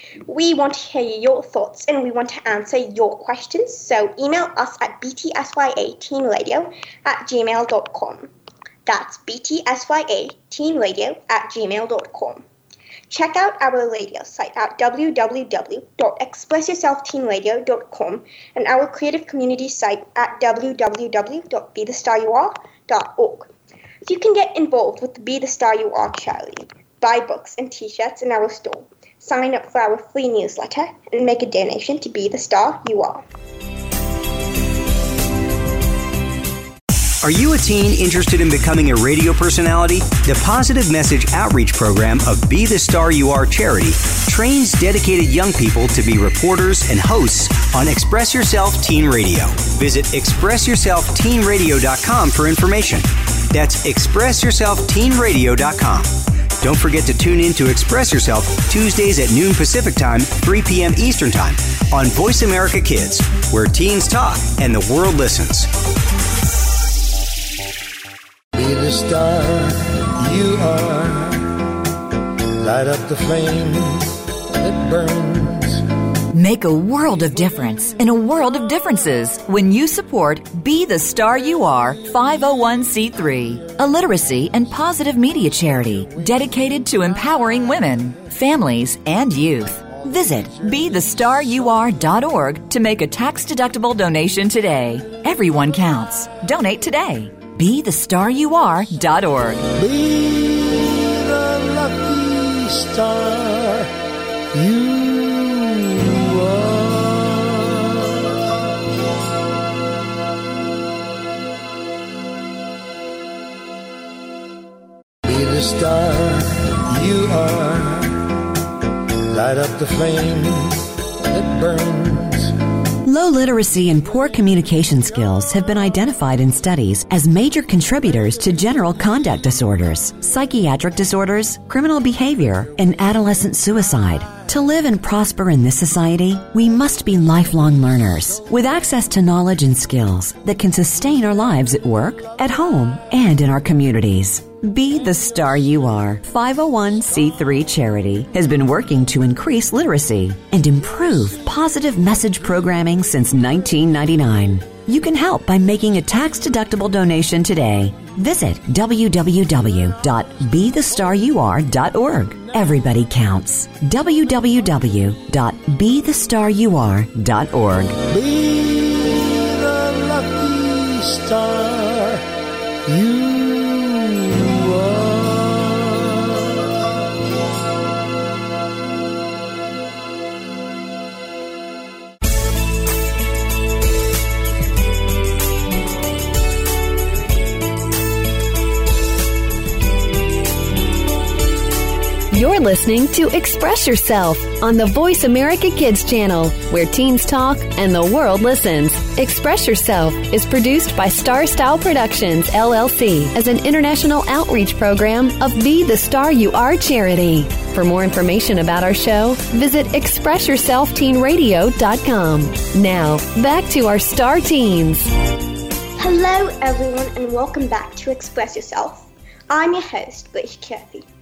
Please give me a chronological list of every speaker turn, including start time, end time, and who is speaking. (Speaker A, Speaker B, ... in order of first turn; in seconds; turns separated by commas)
Speaker A: 0.2-8.3, Speaker A: 8.9-12.4, Speaker A: 13.1-23.5, Speaker A: 24.0-33.2, Speaker B: 37.2-65.7, Speaker C: 68.5-71.5, Speaker C: 72.6-75.8, Speaker D: 76.3-99.7, Speaker C: 90.2-90.9, Speaker C: 99.8-103.9, Speaker C: 104.5-107.8, Speaker C: 115.2-118.2, Speaker C: 119.3-122.5, Speaker E: 123.0-168.0, Speaker C: 168.1-172.2, Speaker C: 172.9-176.0, Speaker F: 192.3-215.1, Speaker A: 216.0-221.1